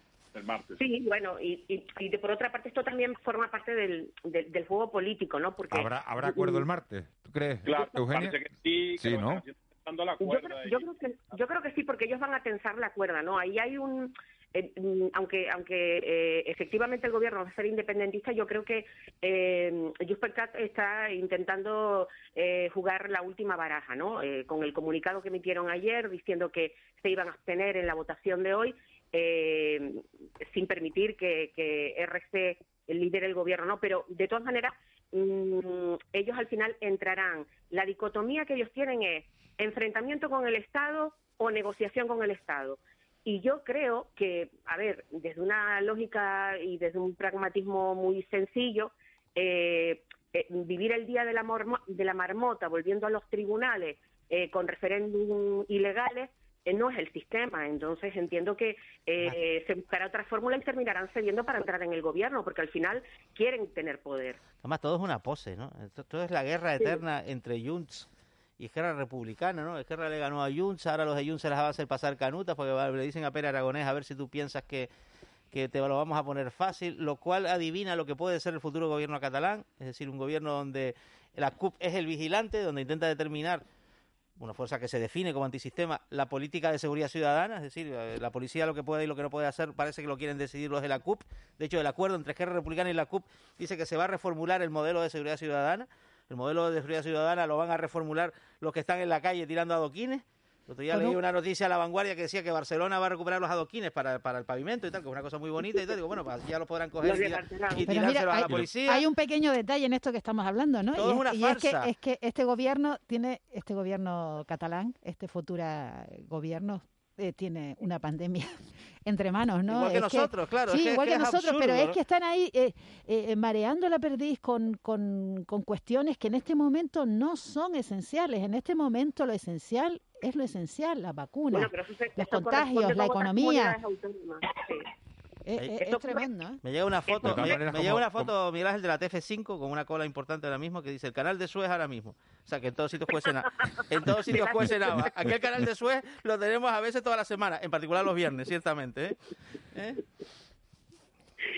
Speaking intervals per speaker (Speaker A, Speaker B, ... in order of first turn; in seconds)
Speaker A: 0.3-0.8, 7.6-10.8
Speaker B: 0.8-6.7, 10.2-64.4, 107.0-107.9, 131.5-134.9, 135.8-136.3, 137.1-137.6, 144.3-144.7
Speaker C: 5.7-8.3, 9.0-9.4, 137.2-138.3, 144.3-145.7
Speaker D: 64.5-74.9, 75.5-83.6, 84.4-109.1, 110.9-111.9, 119.7-122.0, 136.6-149.2, 149.7-150.0
Speaker E: 100.9-101.2, 107.8-133.8, 135.4-136.6